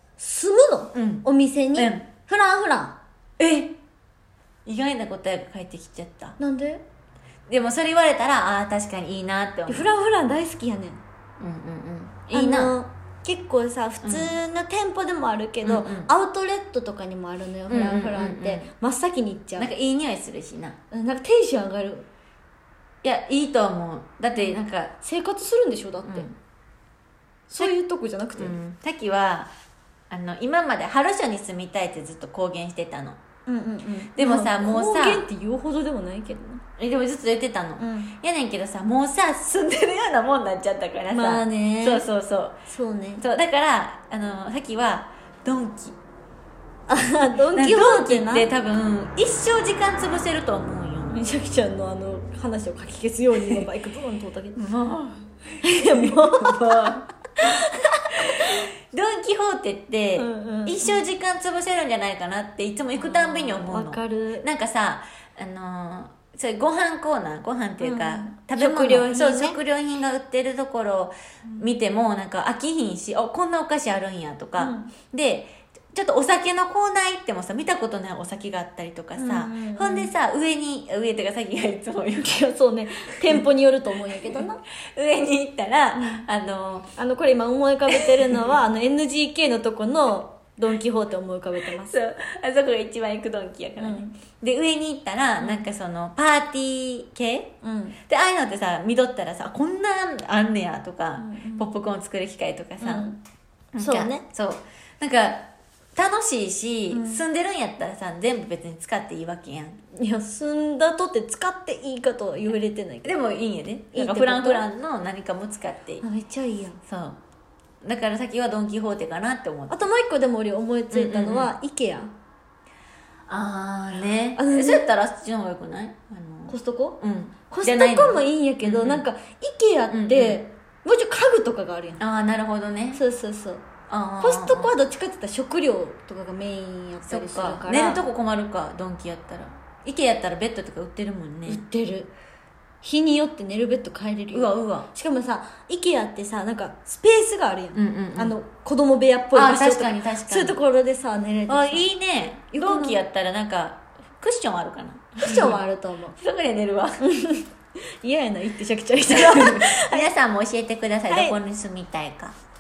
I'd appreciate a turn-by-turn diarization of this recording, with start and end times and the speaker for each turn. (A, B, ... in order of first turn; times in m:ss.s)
0:00.2-0:03.0 A
0:00.9-0:02.1 B
0:03.4-0:03.8 B
0:04.7-0:06.4 B
0:06.4-0:06.8 A
0:07.5-0:09.9 B
0:09.7-0:11.0 A
0:11.4-0:12.8 B
0:12.3-0:19.7 A
0:14.0-0:14.4 B
0:15.6-0:16.1 B
0:17.7-0:18.7 B
0:19.6-0:20.8 B
0:20.9-0:22.1 A
0:23.0-0:25.0 B
0:24.4-0:26.3 A
0:26.0-0:26.4 B
0:27.5-0:28.6 A
0:28.4-0:29.5 B
0:30.1-0:33.2 B
0:33.5-0:36.6 A
0:34.1-0:35.3 B
0:36.8-0:42.6 B
0:37.8-0:38.1 A
0:41.1-0:42.1 A
0:42.7-0:43.2 A
0:43.2-0:46.0 B
0:46.9-0:48.5 A
0:47.5-0:51.2 B
0:51.1-0:54.6 A
0:53.4-0:53.7 B
0:54.6-0:57.0 B
0:55.6-0:58.6 A
0:58.2-1:22.4 B
1:00.2-1:01.0 A
1:03.0-1:04.5 A
1:07.8-1:09.6 A
1:14.6-1:14.9 A
1:19.2-1:20.1 A
1:22.1-1:24.6 A
1:24.2-1:26.9 B
1:26.0-1:26.2 A
1:27.0-1:31.9 A
1:27.9-1:28.4 B
1:31.7-1:37.5 B
1:33.8-1:34.2 A
1:35.4-1:35.6 A
1:37.6-1:38.0 A
1:38.1-1:43.1 B
1:41.2-1:41.7 A
1:42.8-1:43.2 A
1:43.7-1:49.8 B
1:43.8-1:44.3 A
1:46.9-1:47.2 A
1:49.9-1:53.2 A
1:53.0-1:56.0 B
1:53.9-1:54.7 A
1:56.0-1:56.8 A
1:56.9-1:57.2 B
1:57.8-1:59.8 B
1:59.7-2:02.1 A
2:00.9-2:01.5 B
2:03.3-2:09.0 B
2:04.4-2:04.8 A
2:06.5-2:12.0 A
2:09.9-2:10.4 B
2:12.0-2:13.0 B
2:12.9-2:13.6 A
2:13.9-2:14.7 B
2:14.2-2:18.0 A
2:17.1-2:21.6 B
2:21.5-2:22.1 A
2:22.8-2:31.9 A
2:24.3-2:24.9 B
2:27.7-2:28.4 B
2:29.3-2:30.6 B
2:31.5-2:35.6 B
2:32.5-2:33.0 A
2:35.2-2:36.2 A
2:36.2-2:37.0 B
2:37.0-2:37.5 A
2:38.0-2:40.1 A
2:39.1-2:42.4 B
2:41.1-2:41.4 A